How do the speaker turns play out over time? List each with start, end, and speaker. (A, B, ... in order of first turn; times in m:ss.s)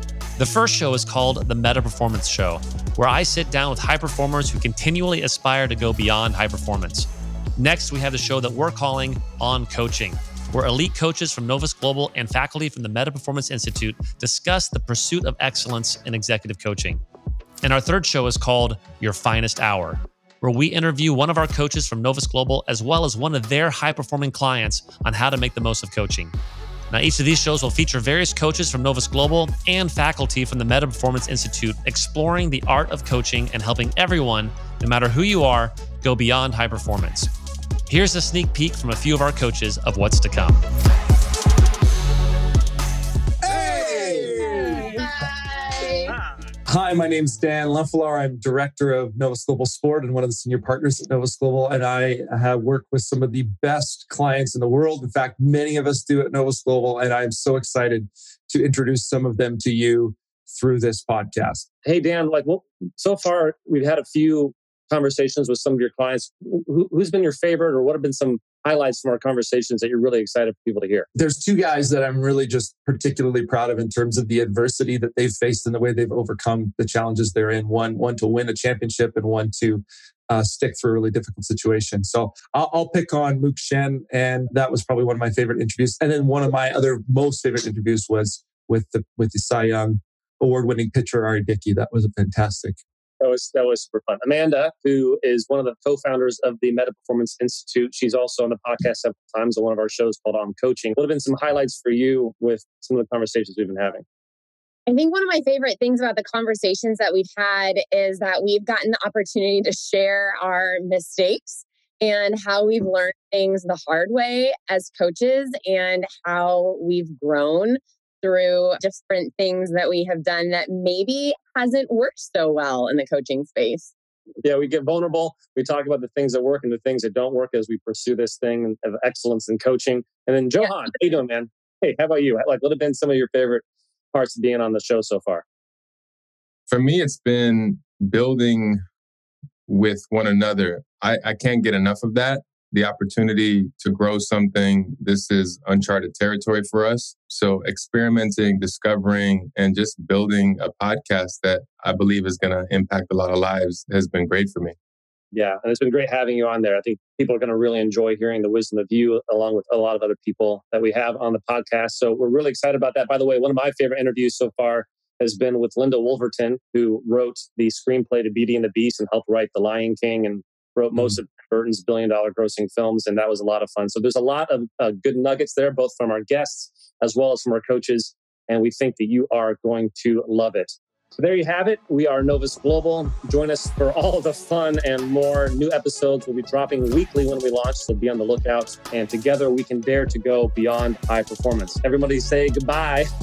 0:00.4-0:17.0 A
0:17.6-0:26.3 A
0:26.9-0:37.3 A
0:37.9-0:40.6 A
0:43.4-0:45.1 B
0:44.6-0:46.1 C
0:46.6-1:01.6 B
1:01.8-1:11.1 D
1:11.1-1:32.8 B
1:33.2-1:44.0 D
1:44.9-2:03.9 C
2:04.4-2:13.6 D
2:14.1-2:15.4 D
2:16.7-2:18.8 E
2:19.7-2:34.8 E
2:35.3-3:13.1 D